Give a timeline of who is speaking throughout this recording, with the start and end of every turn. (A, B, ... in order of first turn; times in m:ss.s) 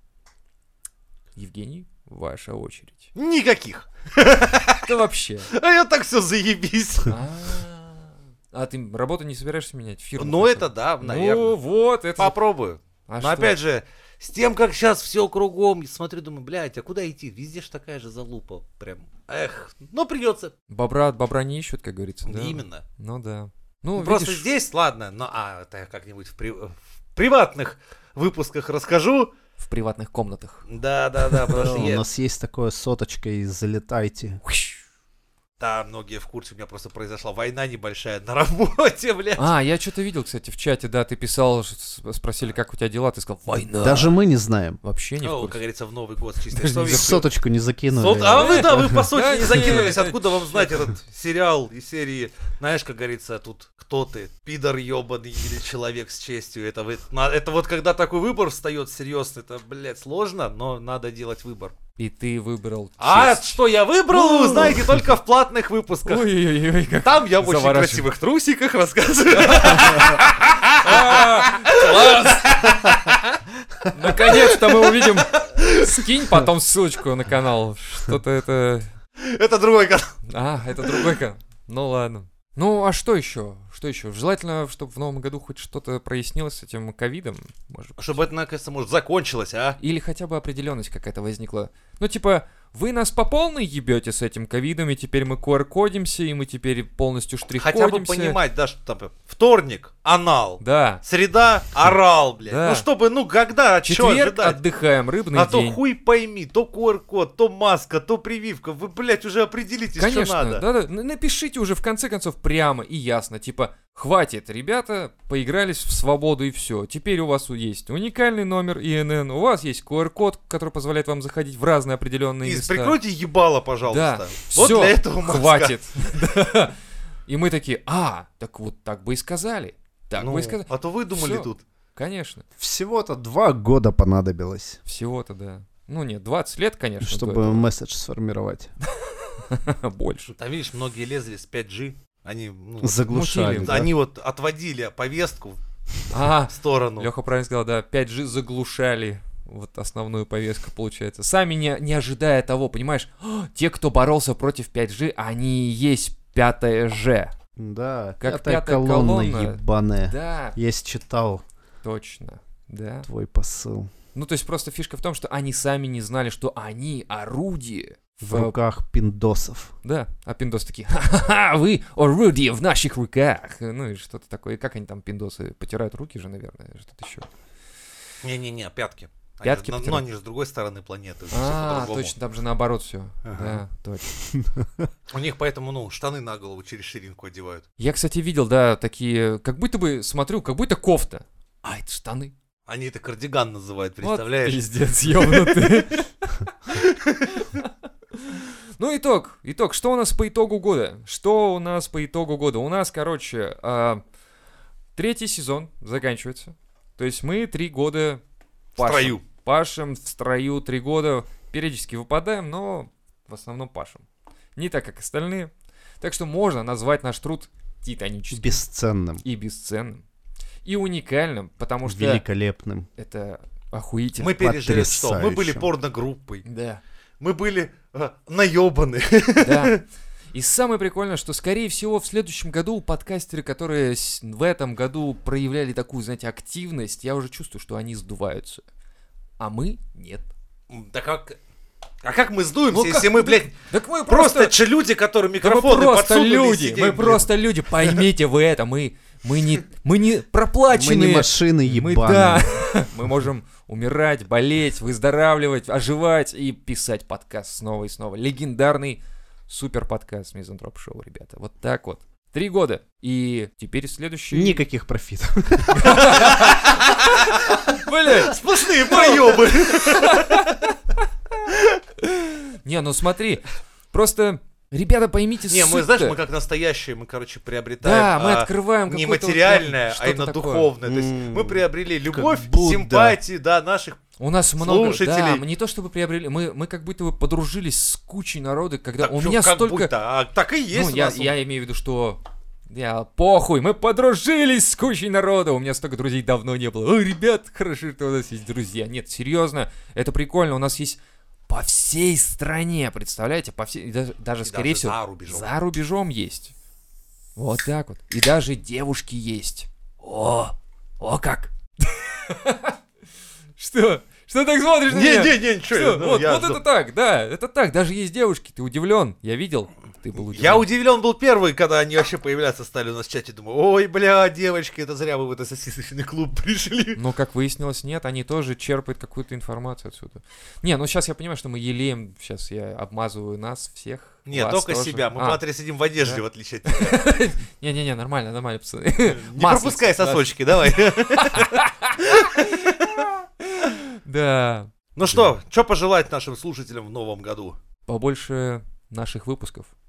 0:01.4-0:03.1 A
0:03.1-0:04.9 B
0:04.8-0:05.5 A
0:05.5-0:07.2 B
0:07.1-0:12.4 A
0:10.2-0:11.6 B
0:12.2-0:20.5 B
0:13.1-0:13.6 A
0:20.7-0:24.5 A
0:22.2-0:22.8 B
0:24.0-0:29.3 B
0:29.6-0:30.6 A
0:30.7-0:32.0 B
0:31.3-0:31.9 A
0:31.5-0:34.4 C
0:34.4-0:34.8 A
0:35.6-0:39.5 B
0:39.4-0:44.1 A
0:43.8-0:44.8 C
0:44.8-0:45.6 A
0:45.2-0:47.2 B
0:46.5-0:47.2 A
0:46.8-0:49.0 C
0:47.9-1:01.8 B
0:48.3-0:50.8 A
1:02.0-1:03.6 A
1:03.0-1:06.3 B
1:04.1-1:05.0 A
1:06.0-1:08.1 A
1:06.9-1:13.4 B
1:09.4-1:12.7 A
1:13.9-1:18.9 A
1:14.0-1:16.4 B
1:19.2-1:20.1 B
1:20.3-1:28.2 A
1:28.0-1:29.8 B
1:29.8-1:38.4 A
1:37.6-1:44.6 B
1:40.6-1:41.0 A
1:42.5-1:42.9 A
1:43.8-1:45.8 A
1:45.3-1:50.6 B
1:50.0-2:03.0 A
2:02.4-2:05.8 B
2:03.9-2:12.4 A
2:10.2-2:11.6 B
2:12.6-2:14.8 C
2:14.9-2:17.7 A
2:17.0-2:18.8 C
2:18.9-2:20.3 A
2:20.3-2:25.6 B
2:22.8-2:23.9 C
2:23.1-2:23.9 A
2:26.1-2:37.3 A
2:26.5-2:27.1 B
2:37.6-2:41.4 C
2:38.2-2:40.6 A
2:41.8-2:43.1 A
2:43.0-2:43.9 C
2:44.1-2:48.6 A
2:48.2-2:49.7 C
2:49.8-2:57.3 A
2:58.2-3:02.1 B
2:59.4-3:00.1 A
3:01.3-3:04.1 A
3:03.2-3:03.6 B
3:04.3-3:04.9 C
3:05.1-3:07.6 B
3:07.8-3:12.3 A
3:12.7-3:14.6 B
3:14.0-3:24.0 A
3:16.8-3:17.3 B
3:25.0-3:28.2 A
3:28.8-3:34.0 A
3:28.8-3:29.2 B
3:34.6-3:38.6 A
3:38.3-3:39.2 C
3:39.2-3:40.0 A
3:40.6-3:42.2 A
3:41.8-3:42.9 C
3:43.0-3:44.5 A
3:44.2-3:46.4 B
3:44.4-3:45.7 C
3:46.4-3:46.8 A
3:47.2-3:49.8 B
3:49.4-3:58.6 A
3:59.4-4:00.3 A
4:00.7-4:01.4 B
4:02.0-4:08.0 B
4:02.7-4:04.6 A
4:05.4-4:24.6 A
4:10.7-4:12.6 C
4:24.3-4:26.5 C
4:25.7-4:30.8 A
4:26.0-4:30.5 B
4:32.0-4:36.2 A
4:35.5-4:44.0 B
4:37.8-4:40.7 A
4:40.8-4:43.2 C
4:44.2-4:49.9 A
4:44.6-4:45.4 B
4:49.0-4:51.3 B
4:50.7-5:06.5 A
5:04.4-5:05.5 B
5:07.4-5:12.8 A
5:13.6-5:20.7 A
5:14.9-5:16.6 B
5:20.2-5:27.0 B
5:27.0-5:35.4 A
5:34.3-5:37.0 B
5:36.7-5:45.2 A
5:39.0-5:43.0 B
5:45.0-5:47.6 B
5:47.9-5:49.7 A